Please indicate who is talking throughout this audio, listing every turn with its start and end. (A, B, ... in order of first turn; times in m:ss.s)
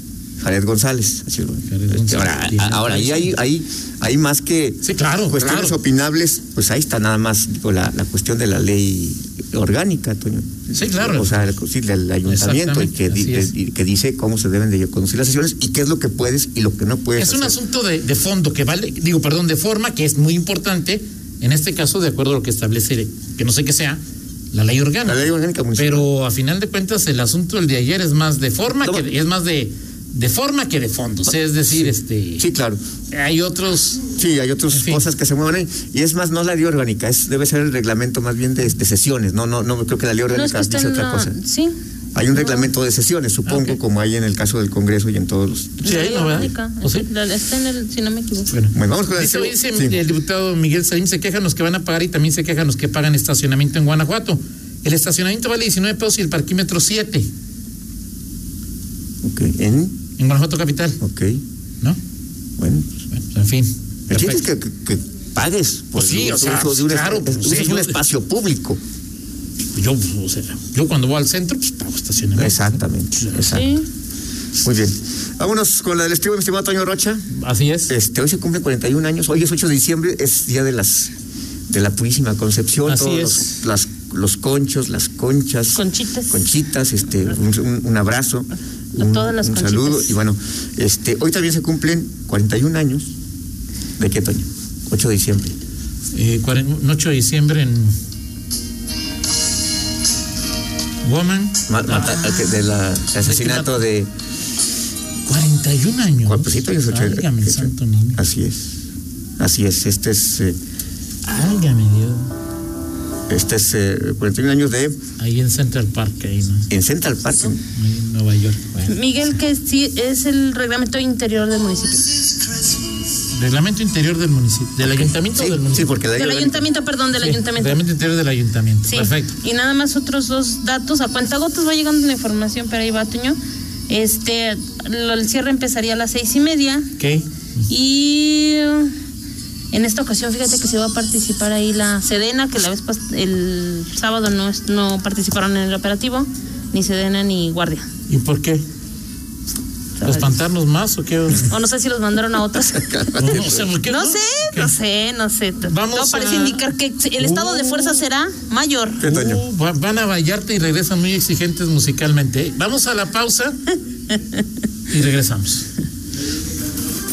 0:00.4-0:17.6 A
0:01.6-0:03.3 B
0:04.8-0:05.8 B
0:10.7-0:11.5 B
0:12.2-0:13.5 B
0:17.2-0:24.0 B
0:24.5-0:32.5 B
0:25.0-0:26.1 A
0:28.8-0:29.0 A
0:31.7-0:32.8 A
0:33.1-0:34.0 B
0:34.1-0:41.4 A
0:34.7-0:35.0 B
0:40.3-0:41.7 C
0:42.1-0:46.1 A
0:42.4-0:42.7 C
0:43.4-0:43.8 B
0:45.8-0:47.0 B
0:45.8-0:48.5 C
0:48.5-0:57.3 B
0:48.7-0:50.0 A
0:59.2-1:00.0 A
1:00.2-1:01.0 B
1:01.0-1:01.4 A
1:02.6-1:02.9 A
1:03.1-1:04.4 B
1:04.1-1:08.8 A
1:05.9-1:08.0 B
1:09.7-1:13.6 B
1:12.3-1:13.8 A
1:13.5-1:13.8 C
1:14.6-1:17.3 A
1:17.3-1:17.9 B
1:17.9-1:21.1 A
1:21.7-1:33.1 A
1:22.8-1:23.6 B
1:25.7-1:26.5 C
1:29.0-1:30.1 C
1:34.0-1:35.5 A
1:36.1-1:38.0 B
1:41.0-1:42.3 B
1:41.7-1:44.1 A
1:43.2-1:43.8 B
1:45.2-1:48.2 B
1:46.2-1:48.8 A
1:49.4-1:50.6 A
1:51.2-1:52.3 B
1:53.3-1:55.0 A
1:55.2-1:56.7 B
1:56.7-1:57.6 A
1:57.7-1:58.9 B
1:58.9-2:02.1 C
2:03.3-2:06.0 B
2:04.8-2:06.6 A
2:06.2-2:07.8 C
2:07.2-2:09.3 B
2:08.8-2:13.4 C
2:13.9-2:16.9 C
2:17.0-2:17.3 B
2:17.7-2:18.9 C
2:19.7-2:27.9 C
2:28.1-2:28.6 B
2:30.0-2:30.4 C
2:30.0-2:31.5 B
2:31.4-2:33.0 C
2:32.7-2:33.7 A
2:33.2-2:34.7 B
2:33.8-2:39.0 C
2:35.6-2:36.6 B
2:37.2-2:38.0 B
2:39.0-2:39.4 A
2:39.0-2:43.6 B
2:44.1-2:44.4 C
2:44.9-2:45.7 B